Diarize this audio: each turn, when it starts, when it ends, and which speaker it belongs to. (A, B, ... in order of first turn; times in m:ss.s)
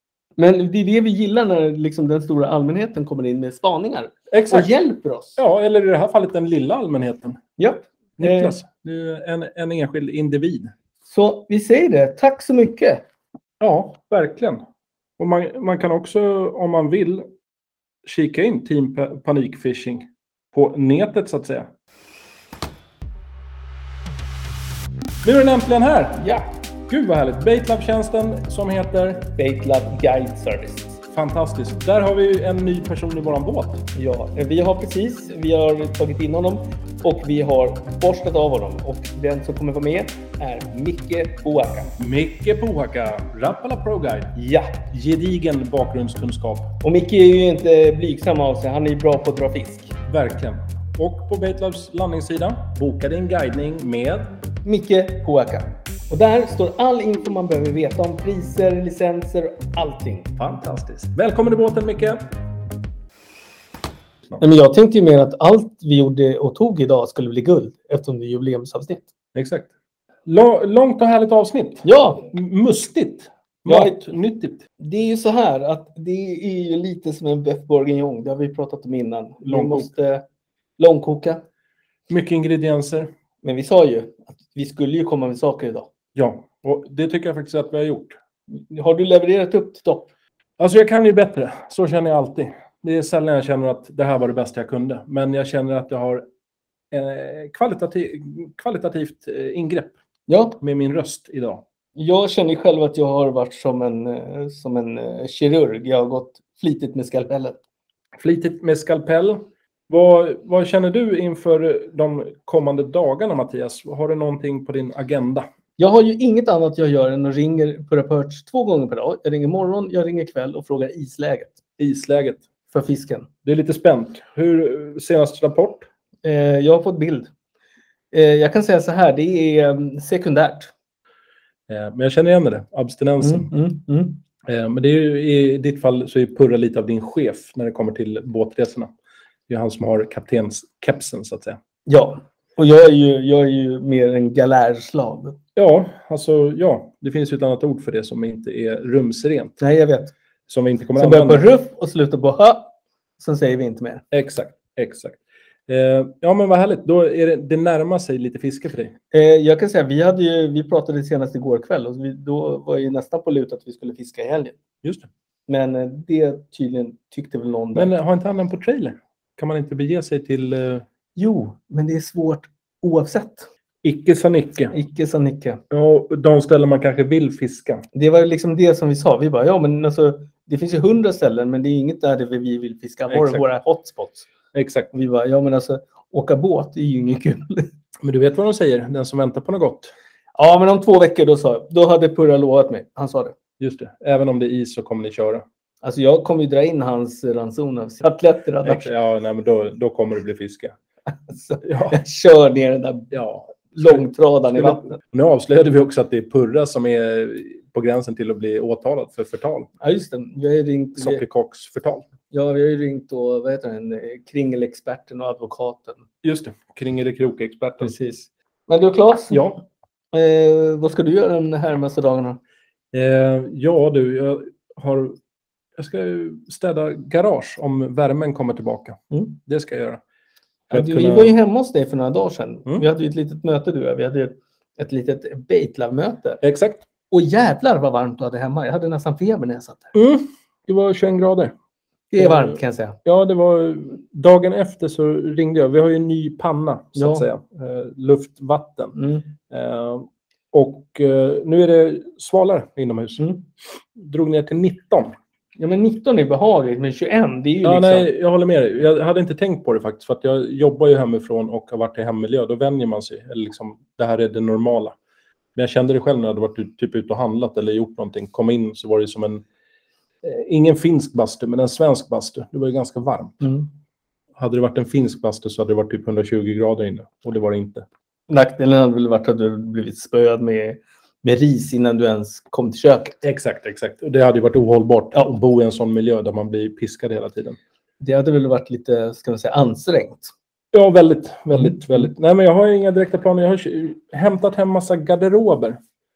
0:00.4-0:05.4 A
0:04.3-0:04.7 B
0:05.4-0:07.4 B
0:07.6-0:08.6 A
0:08.2-0:10.7 B
0:11.1-0:13.0 A
0:13.6-0:14.6 B
0:15.2-0:17.3 B
0:18.0-0:21.7 B
0:25.2-0:26.3 B
0:26.9-0:29.2 B
0:29.3-0:31.0 A
0:31.1-0:33.8 B
0:33.9-0:41.9 A
0:42.0-0:46.7 B
0:44.4-0:44.7 A
0:46.8-0:50.0 A
0:50.0-0:54.3 B
0:54.6-1:00.3 A
1:00.4-1:02.2 B
1:04.4-1:09.0 A
1:09.3-1:09.7 B
1:10.2-1:14.6 B
1:11.8-1:12.2 A
1:13.7-1:14.0 A
1:14.8-1:20.2 A
1:19.5-1:19.9 B
1:20.8-1:21.4 A
1:22.1-1:23.1 B
1:23.4-1:25.9 A
1:26.1-1:28.2 B
1:28.5-1:30.1 A
1:30.6-1:36.2 B
1:36.9-1:39.9 B
1:40.3-1:40.6 A
1:40.6-1:41.6 B
1:42.0-1:47.6 A
1:48.2-1:55.5 B
1:55.8-2:01.6 A
2:01.8-2:02.4 B
2:02.7-2:03.3 A
2:03.4-2:05.9 B
2:06.2-2:07.3 A
2:08.1-2:10.7 A
2:11.7-2:13.5 B
2:13.2-2:14.2 A
2:14.4-2:18.9 B
2:19.5-2:21.6 B
2:21.8-2:25.4 A
2:25.6-2:29.6 B
2:29.6-2:30.1 A
2:30.5-2:31.4 B
2:31.0-2:34.0 A
2:34.1-2:38.9 B
2:39.1-2:44.6 A
2:45.5-2:47.9 A
2:47.7-2:50.8 B
2:51.2-2:53.5 A
2:53.8-2:54.7 B
2:54.7-2:55.6 A
2:55.7-2:57.8 B
2:57.9-3:04.2 A
3:03.1-3:03.4 B
3:04.5-3:04.9 B
3:04.9-3:07.7 A
3:08.0-3:09.9 B
3:10.4-3:13.4 A
3:13.6-3:15.4 B
3:15.8-3:18.9 A
3:18.6-3:20.8 B
3:21.3-3:23.1 A
3:21.6-3:22.0 B
3:23.1-3:24.0 B
3:23.7-3:25.0 A
3:24.5-3:29.7 B
3:29.8-3:31.2 A
3:31.0-3:32.0 B
3:32.3-3:36.0 A
3:36.2-3:37.9 B
3:37.8-3:39.5 A
3:39.3-3:39.6 B
3:40.1-3:42.4 A
3:42.9-3:45.2 B
3:45.8-3:50.0 B
3:50.7-3:51.4 B
3:50.7-3:56.4 A
3:56.4-3:56.8 B
3:57.1-3:59.9 A
3:59.9-4:01.5 B
4:02.1-4:03.0 A
4:02.2-4:09.0 B
4:07.0-4:07.2 A
4:09.0-4:09.2 A
4:09.5-4:13.3 B
4:13.9-4:15.2 B
4:15.6-4:18.1 A
4:17.6-4:25.0 B
4:25.5-4:29.4 B
4:30.2-4:33.6 B
4:34.4-4:37.8 B
4:38.3-4:43.2 A
4:43.2-4:47.6 B
4:48.0-4:50.3 A
4:50.7-4:55.8 B